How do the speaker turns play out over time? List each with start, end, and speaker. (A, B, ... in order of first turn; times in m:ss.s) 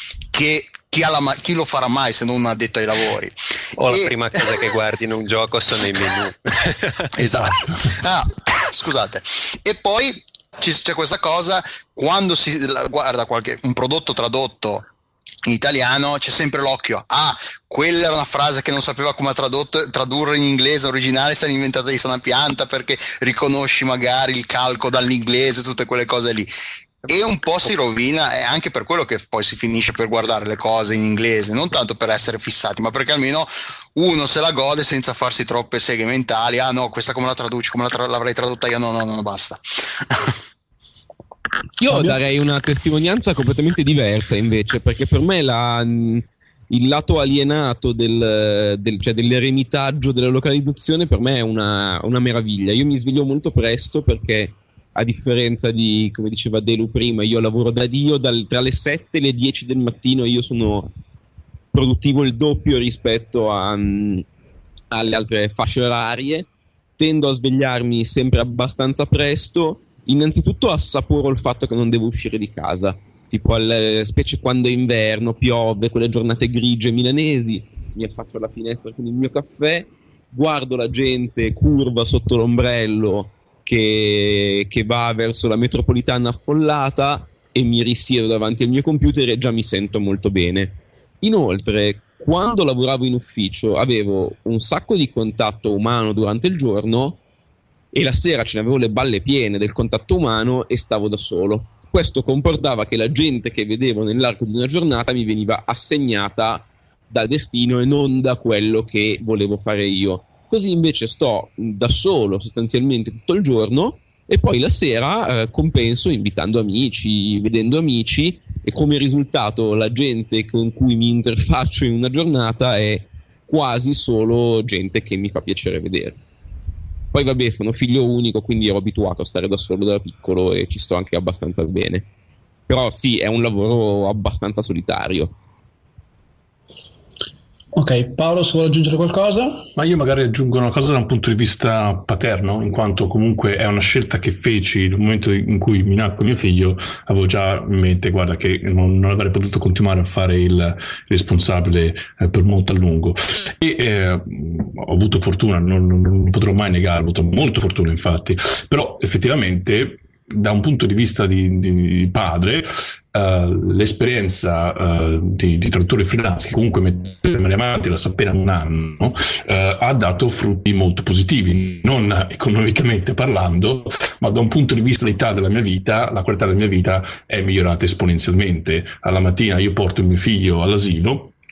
0:00.3-0:04.1 A
0:03.8-0:07.4 B
0:07.2-0:14.8 A
0:07.4-0:07.9 C
0:15.4-0:26.5 A
0:27.0-0:40.4 A
0:41.8-1:00.9 D
0:41.9-0:42.2 E
1:01.7-1:04.2 D
1:04.9-1:37.2 D
1:37.9-2:06.2 D
2:07.1-2:12.1 D
2:12.7-2:15.3 D
2:17.7-2:19.7 E
2:19.8-3:01.3 C